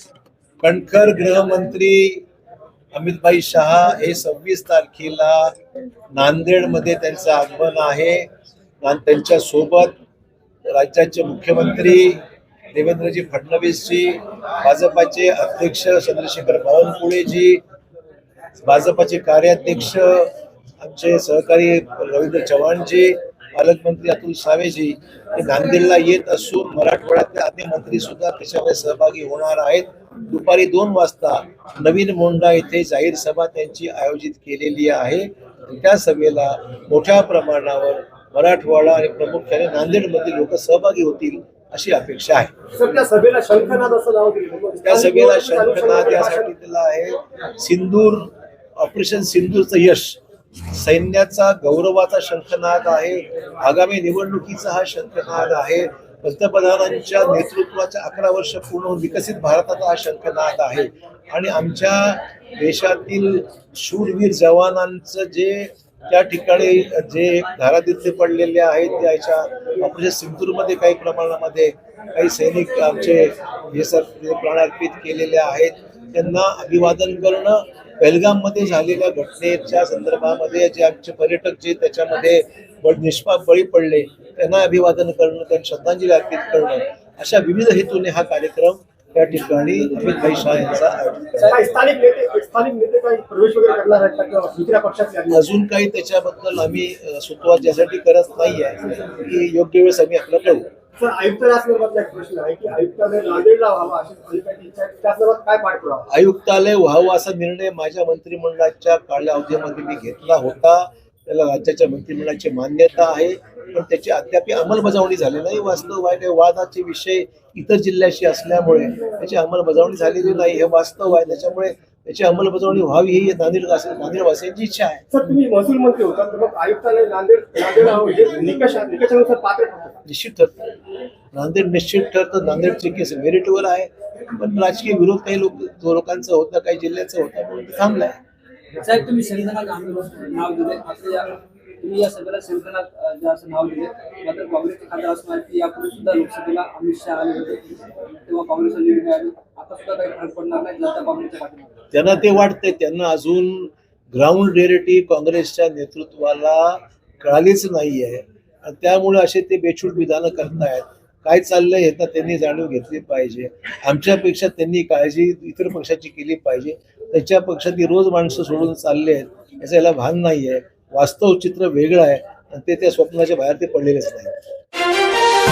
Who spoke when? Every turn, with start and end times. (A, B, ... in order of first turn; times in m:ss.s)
0:00.6-0:02.2 A
0:02.9-0:05.5 A
0:06.1-0:08.3 A
0:08.8-0:09.9 A
0:10.7-0:12.2 A
0:12.7-0:17.6 A
0:18.6-0:42.5 A
0:42.7-0:46.5 B
0:44.8-1:31.6 A
1:31.4-1:35.5 B
1:35.3-1:40.7 A
1:41.0-1:46.1 B
1:46.1-2:05.0 A
2:05.1-2:10.0 B
2:10.0-2:10.7 A
2:11.3-2:18.2 A
2:18.8-2:31.7 C
2:31.9-2:54.3 A